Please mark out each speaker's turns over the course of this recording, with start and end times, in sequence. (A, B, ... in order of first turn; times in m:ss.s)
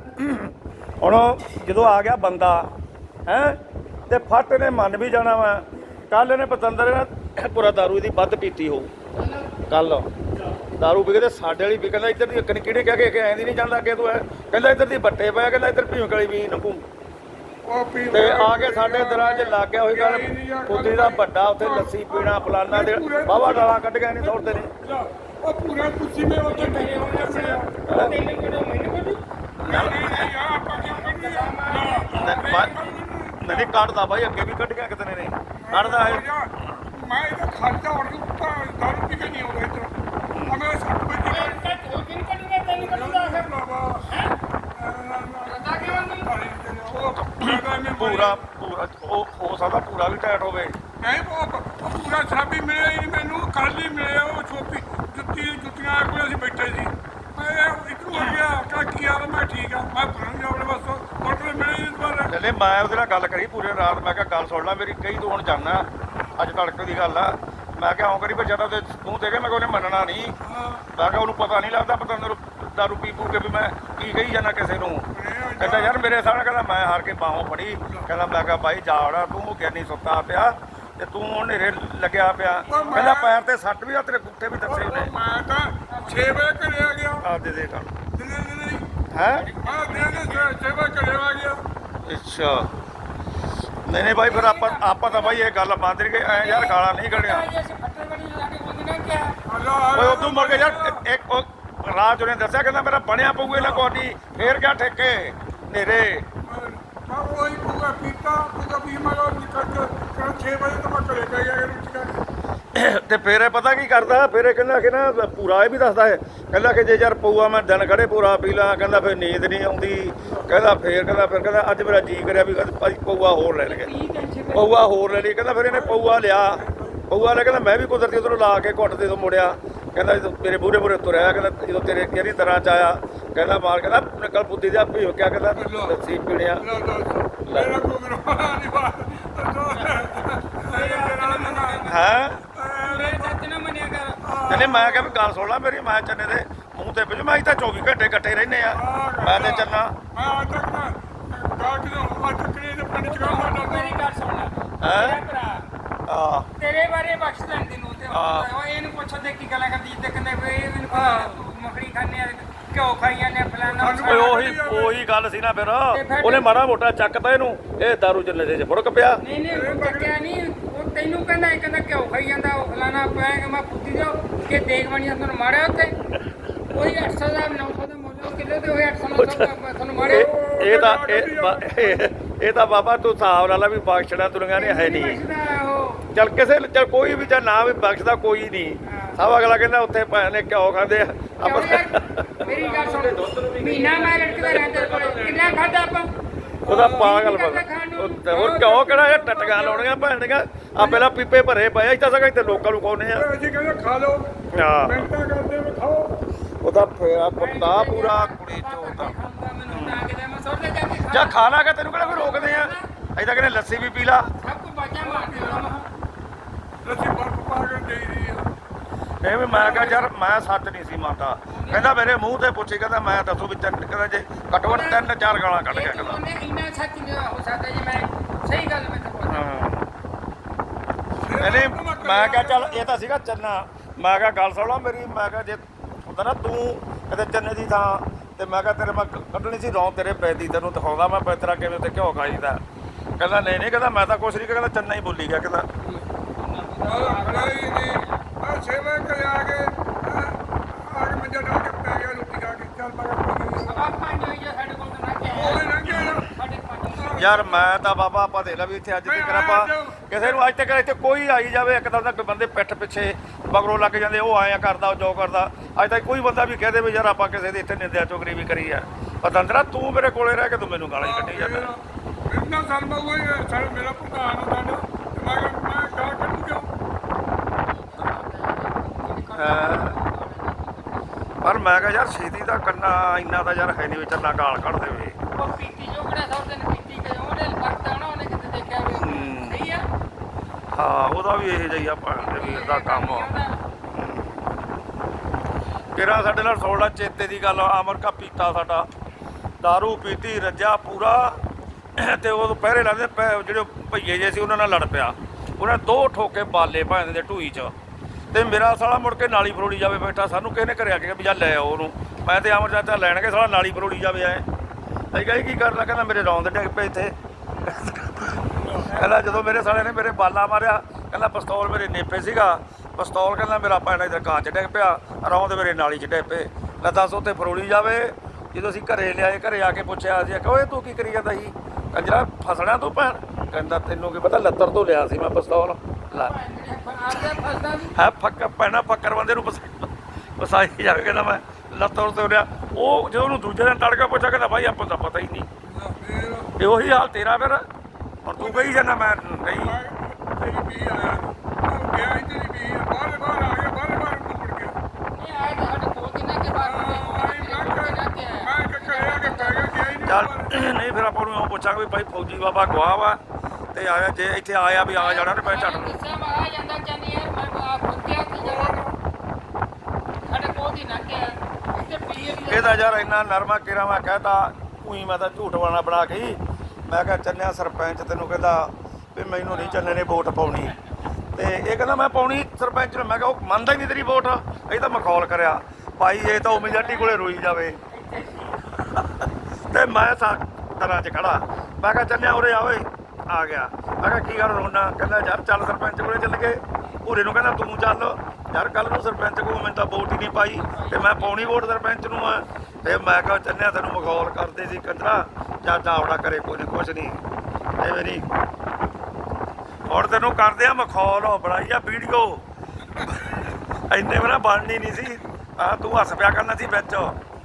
0:00.2-0:02.7 A
0:03.3-0:08.9 A
0:09.7-0:10.1 A
0:10.8-0:16.8 A
0:17.7-0:27.7 B
0:18.1-0:24.7 A
0:26.4-0:32.9 C
0:27.9-0:28.2 A
0:29.6-0:30.3 A
0:29.6-0:33.8 B
0:32.2-0:32.7 A
0:33.4-0:36.8 A
0:35.6-0:41.7 B
0:40.3-0:40.6 A
0:41.3-0:44.4 C
0:42.7-0:44.1 B
0:44.7-0:48.4 B
0:45.4-0:46.3 C
0:47.3-0:50.8 A
0:51.0-1:02.3 B
0:58.2-0:58.4 A
1:02.3-1:10.4 A
1:10.4-1:10.9 B
1:10.9-1:15.1 A
1:15.1-1:16.1 B
1:15.6-1:25.1 A
1:22.7-1:23.4 B
1:22.7-1:23.1 C
1:24.6-1:27.3 B
1:25.9-1:26.4 C
1:27.2-1:27.9 A
1:28.1-1:28.8 B
1:29.1-1:29.5 A
1:29.3-1:30.6 C
1:29.6-1:31.6 B
1:32.0-1:32.7 A
1:33.9-1:37.5 A
1:34.1-1:35.5 C
1:36.3-1:39.4 C
1:39.5-1:41.0 B
1:39.9-1:46.2 A
1:43.4-1:43.9 B
1:46.4-1:52.2 B
1:52.8-2:03.9 A
2:03.6-2:04.9 C
2:04.5-2:16.7 A
2:05.7-2:07.0 B
2:15.6-2:16.0 B
2:16.6-2:23.4 B
2:17.4-2:17.7 A
2:20.6-2:22.0 C
2:21.9-2:22.4 A
2:22.8-2:24.2 C
2:24.2-2:25.2 B
2:24.5-2:29.9 A
2:28.7-2:34.0 B
2:33.0-2:35.7 C
2:34.8-2:35.2 A
2:36.1-2:36.5 A
2:36.6-2:44.4 C
2:38.1-2:38.5 A
2:40.9-2:41.4 B
2:43.7-2:45.0 B
2:44.0-2:49.2 A
2:45.9-2:46.6 C
2:49.2-2:55.9 C
2:49.5-2:50.1 B
2:56.7-3:00.3 C
2:59.2-3:05.2 A
3:00.0-3:02.1 B
3:04.5-3:06.1 C
3:06.1-3:15.8 A
3:08.8-3:09.2 C
3:11.4-3:16.1 C
3:16.6-3:17.2 B
3:16.7-3:23.3 A
3:16.8-3:18.7 C
3:18.3-3:20.2 B
3:20.8-3:21.1 B
3:22.4-3:26.2 B
3:24.5-3:25.1 A
3:26.6-3:29.1 A
3:27.4-3:32.9 C
3:29.7-3:30.0 A
3:31.1-3:34.3 A
3:34.3-3:35.9 C
3:35.0-3:35.8 B
3:36.8-3:38.5 B
3:39.2-3:46.2 A
3:39.5-3:40.0 B
3:41.5-3:42.0 C
3:44.6-3:45.1 C
3:45.7-3:49.6 C
3:49.3-3:49.9 A
3:51.2-3:52.9 B
3:51.4-4:02.6 A
4:03.2-4:05.7 A
4:06.4-4:08.5 C
4:06.9-4:13.9 B
4:13.5-4:17.8 C
4:15.3-4:16.3 B
4:16.9-4:17.3 B
4:17.2-4:31.7 A
4:19.0-4:20.5 B
4:31.0-4:36.7 B
4:37.7-4:41.1 C
4:39.3-4:40.0 A
4:41.4-4:45.2 A
4:45.3-4:49.9 C
4:49.0-4:49.6 A
4:50.7-4:53.3 A
4:52.2-4:53.6 C
4:53.9-4:54.4 A
4:56.0-4:58.9 A
4:59.6-5:01.4 A
5:02.0-5:07.7 A
5:08.3-5:14.4 A
5:15.1-5:36.3 A
5:18.6-5:18.9 B
5:18.7-5:20.1 C
5:36.1-5:38.0 C
5:38.0-5:45.5 A
5:45.7-5:46.5 B
5:46.6-5:47.7 A
5:48.2-5:49.8 A
5:48.3-5:49.0 B
5:49.6-5:54.8 B
5:55.1-5:59.7 C
5:56.5-6:00.7 B
6:00.0-6:03.2 A
6:03.7-6:06.0 A
6:04.8-6:08.8 C
6:08.4-6:09.0 B
6:10.2-6:13.2 C
6:12.5-6:20.7 A
6:19.4-6:19.8 C
6:21.4-6:27.8 A
6:26.2-6:27.2 C
6:27.9-6:28.6 C
6:29.7-6:47.2 A
6:40.5-6:41.5 C
6:47.8-6:48.3 A
6:49.9-6:52.4 A
6:53.0-6:53.4 B
6:53.9-6:57.2 A